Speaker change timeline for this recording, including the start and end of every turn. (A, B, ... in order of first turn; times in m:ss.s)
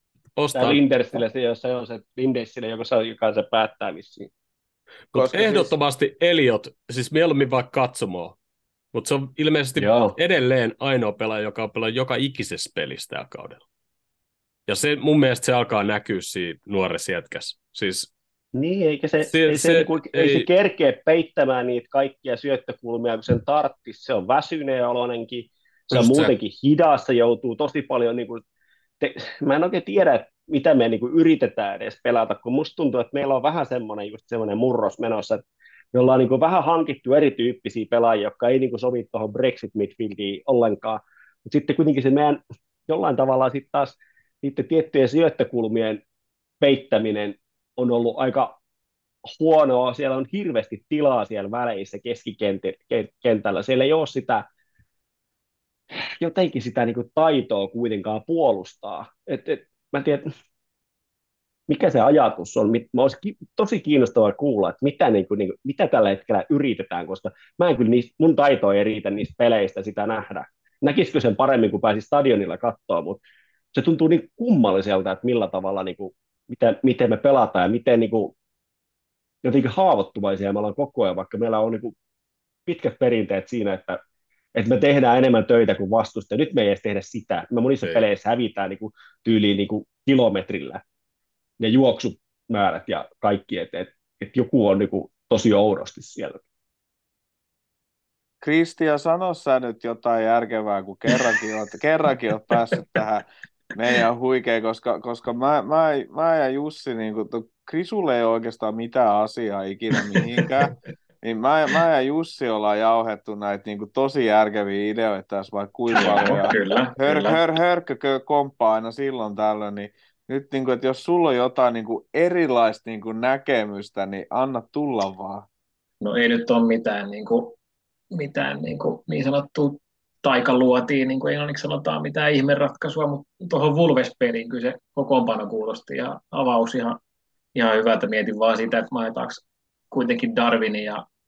0:00.4-0:00.8 A
0:00.5-0:04.3 B
0:05.1-0:08.4 A
0:05.1-0:05.7 C
0:08.9-0:13.6 A
0:09.8-0:10.2 B
0:14.7-0:18.1 A
0:18.5-0:28.4 B
0:19.3-0:20.5 A
0:25.9-0:26.3 A
0:29.0-0:46.0 B
0:46.6-0:48.6 B
0:49.3-0:54.4 B
0:55.9-1:00.3 B
1:01.7-1:13.2 B
1:13.7-1:18.3 B
1:19.4-1:21.9 B
1:22.6-1:24.0 B
1:24.5-1:30.8 B
1:31.6-1:36.4 B
1:38.4-2:05.4 C
1:55.9-1:57.4 D
2:06.0-2:07.6 D
2:08.1-2:17.0 D
2:17.5-2:21.0 D